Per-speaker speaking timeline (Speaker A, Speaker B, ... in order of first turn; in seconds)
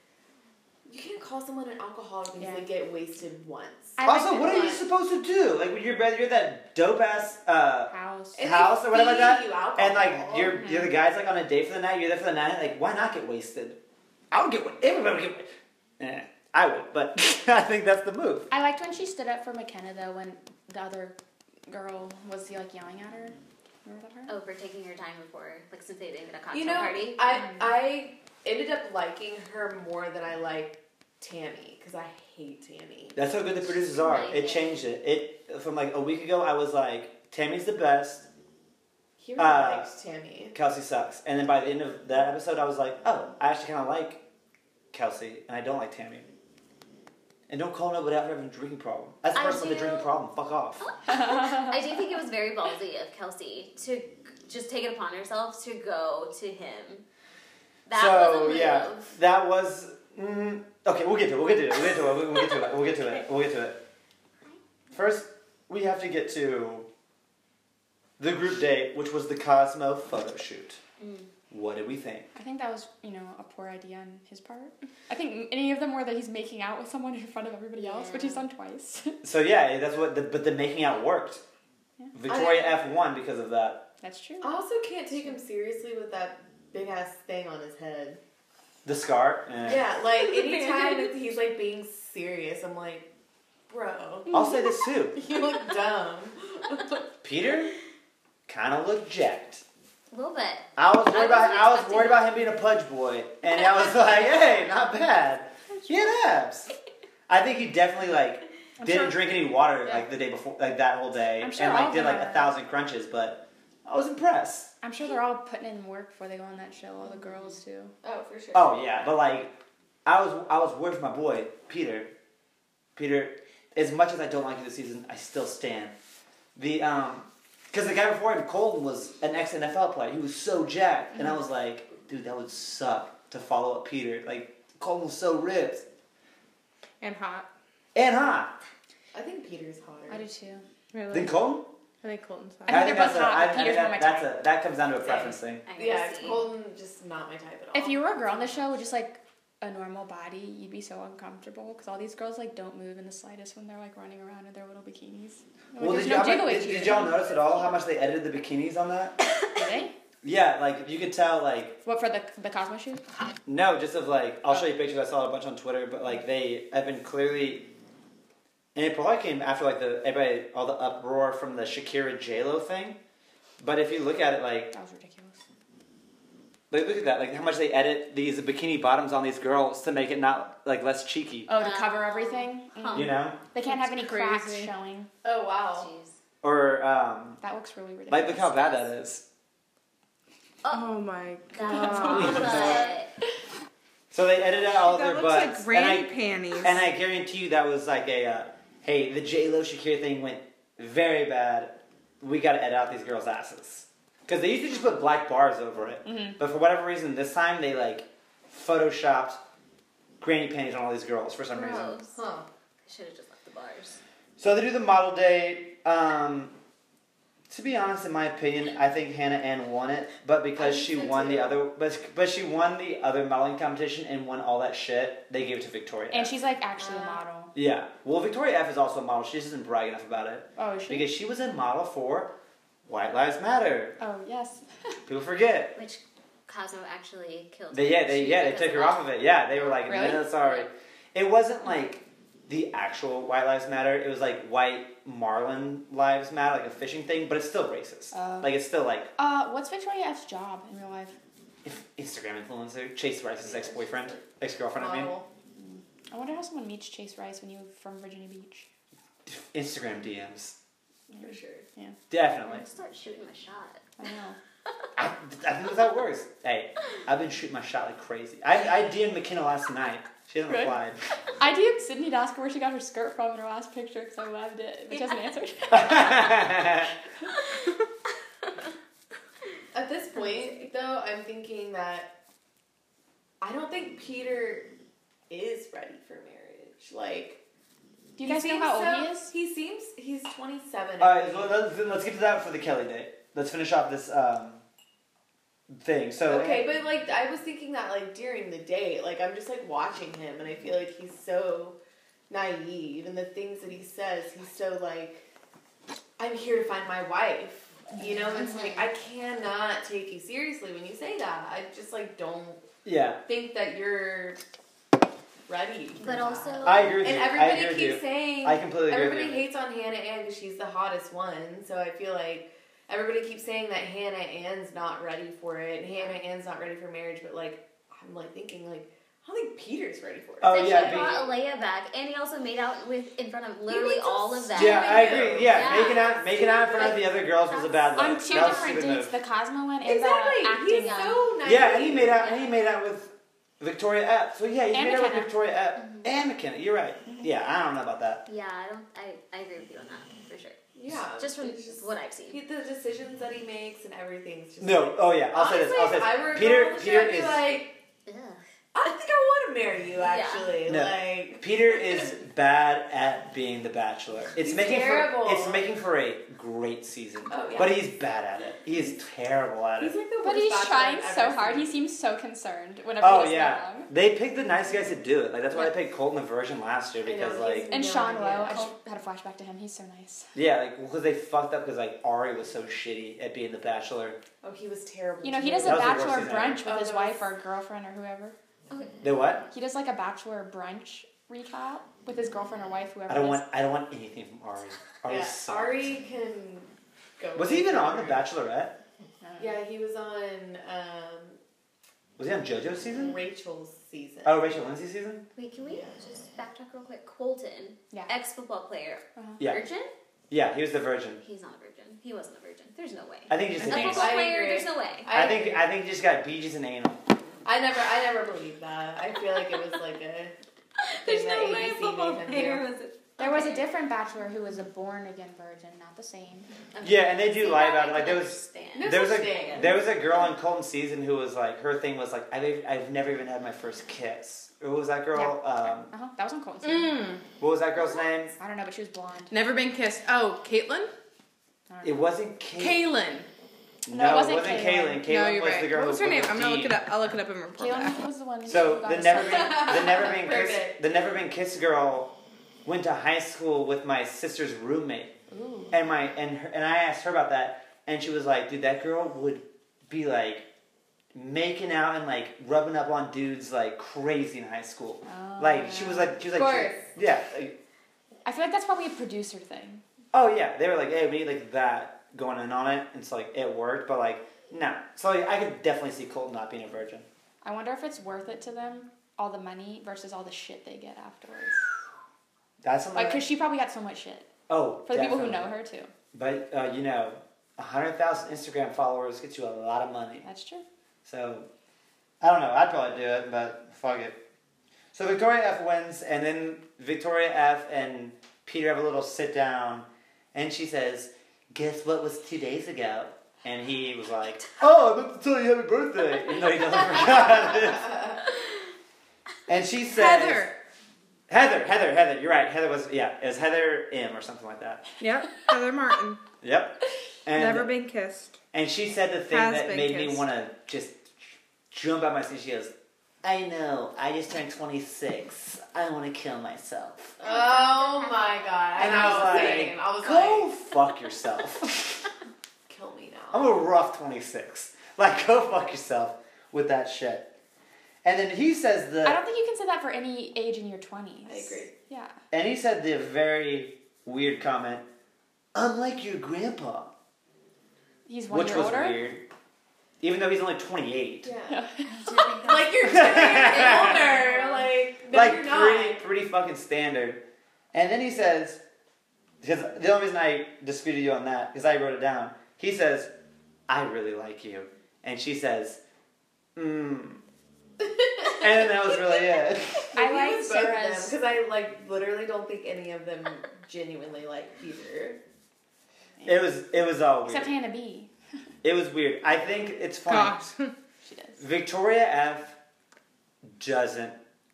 Speaker A: 0.9-4.8, 8.4-10.6, 26.5-33.2, 39.2-40.6, 82.3-82.8, 84.4-88.2, 89.6-93.1, 93.7-94.4, 95.1-97.1, 118.0-118.8, 139.1-140.2, 145.1-148.7, 185.2-185.9, 212.1-212.5, 220.6-221.6, 253.4-254.2, 254.7-255.3, 261.1-261.7, 279.7-282.1, 283.4-284.7, 285.3-287.4, 288.2-291.5, 296.2-301.8, 302.3-305.2, 306.2-312.6, 313.3-314.4, 315.5-331.3, 333.7-337.0, 339.9-342.3, 350.8-357.8, 358.7-362.1, 364.4-365.6, 367.3-367.8, 369.8-371.8, 377.0-378.7, 384.4-387.3, 395.1-398.3, 399.4-401.4, 402.8-404.5, 405.7-405.9, 413.7-415.6, 417.4-420.4, 421.0-422.6, 428.7-429.8, 449.2-450.8, 466.3-466.9, 527.2-530.5, 532.7-533.5, 541.3-541.7, 551.2-551.6, 552.4-556.0, 569.9-575.2
Speaker B: 2.4-2.7, 4.0-4.8, 7.9-8.4, 10.6-10.9, 18.5-21.2, 21.7-24.3, 27.3-27.7, 51.1-51.8, 72.3-79.2, 84.0-84.5, 108.8-109.2, 109.8-110.1, 111.4-112.5, 114.8-117.9, 140.1-140.7, 142.7-144.3, 147.7-157.2, 159.5-159.9, 161.8-163.0, 174.7-175.4, 181.5-185.1, 187.4-188.9, 206.1-206.4, 226.1-227.5, 230.6-231.1, 234.0-234.9, 239.9-240.2, 248.1-248.5, 249.2-251.2, 255.6-258.7, 261.1-262.0, 264.0-264.4, 270.5-270.8, 271.4-276.9, 288.2-289.3, 338.0-341.2, 344.7-345.3, 370.2-373.9, 377.7-380.3, 385.2-388.4, 389.5-393.4, 399.2-399.6, 409.2-409.4, 413.6-414.0, 423.2-426.5, 435.1-437.1, 438.4-439.4, 441.7-442.0, 443.9-445.1, 447.6-450.1, 455.3-455.8, 465.1-466.2, 468.3-469.8, 477.4-481.6, 482.9-484.3, 484.9-485.9, 490.2-490.6, 539.0-542.1, 548.1-549.0, 551.5-552.4, 569.9-571.2, 576.2-576.5, 577.2-578.1, 581.0-581.4
Speaker C: 4.0-13.8, 14.3-18.5, 33.1-38.3, 39.4-39.9, 40.5-44.2, 44.9-46.3, 47.5-50.8, 57.9-63.8, 64.9-66.9, 68.2-70.8, 71.5-72.3, 79.2-81.4, 82.1-83.9, 88.8-89.9, 94.3-95.2, 97.2-97.7, 98.5-99.6, 100.8-106.7, 107.3-114.7, 118.5-122.1, 123.0-126.0, 126.6-135.9, 137.9-138.6, 141.1-141.7, 142.7-145.6, 155.8-159.2, 160.2-161.8, 163.5-167.7, 168.8-173.0, 173.6-174.7, 176.7-181.5, 182.9-183.4, 186.4-187.4, 188.1-189.2, 192.1-192.9, 194.1-209.4, 210.2-212.0, 214.4-216.6, 217.5-226.3, 227.5-232.3, 232.9-234.0, 235.1-235.8, 237.7-249.1, 251.6-255.1, 259.3-260.6, 262.1-262.7, 265.0-271.0, 275.7-276.9, 291.0-294.6, 295.7-296.7, 312.9-313.2, 316.6-319.5, 330.4-331.2, 334.5-339.1, 341.4-348.2, 354.6-357.4, 360.7-370.0, 373.0-377.7, 380.3-384.2, 385.6-386.6, 389.0-389.4, 393.1-395.9, 397.4-398.8, 402.2-403.2, 404.2-405.3, 410.3-411.2, 413.3-414.2, 415.1-417.0, 426.8-435.9, 437.4-438.4, 441.8-442.9, 443.9-446.9, 448.4-452.1, 452.6-455.1, 455.7-460.5, 461.1-467.6, 470.1-477.1, 482.6-483.2, 484.5-485.5, 486.1-490.3, 491.1-491.5, 492.2-494.2, 494.9-508.1, 509.5-510.5, 511.3-514.9, 516.4-517.7, 518.5-527.2, 528.8-532.1, 533.3-537.3, 538.0-539.2, 542.3-544.9, 545.5-546.9, 548.3-549.2, 550.0-551.3, 552.8-554.0, 555.1-557.2, 557.7-558.6, 559.4-563.1, 563.7-565.8, 566.6-567.2, 568.3-569.9, 576.2-577.5, 578.6-580.4, 581.4-582.6, 583.5-584.2
Speaker D: 24.3-27.4, 34.0-34.7, 49.3-50.1, 50.8-57.0, 57.9-59.1, 71.0-71.3, 77.8-78.4, 90.1-91.2, 100.1-102.3, 103.7-104.1, 145.7-146.5, 181.6-183.1, 185.7-186.2, 190.6-190.9, 191.5-193.1, 211.5-212.2, 212.9-214.0, 235.8-240.7, 262.4-263.8, 274.9-275.2, 280.2-280.6, 308.4-308.9, 316.0-317.0, 330.5-338.8, 340.8-341.3, 342.2-342.6, 345.8-346.1, 348.3-350.6, 351.2-352.4, 358.1-358.4, 360.0-360.6, 388.7-389.0, 405.4-409.9, 411.2-415.1, 420.8-423.6, 426.7-429.7, 527.2-529.6, 551.9-554.7
Speaker E: 137.0-137.5, 140.9-141.4, 142.0-142.9, 183.6-184.7, 190.7-192.8, 194.7-196.8, 436.6-437.2, 439.3-440.9, 442.6-443.3, 445.0-448.0, 509.9-510.6, 515.0-516.2, 517.3-518.4, 519.3-520.2, 580.1-580.7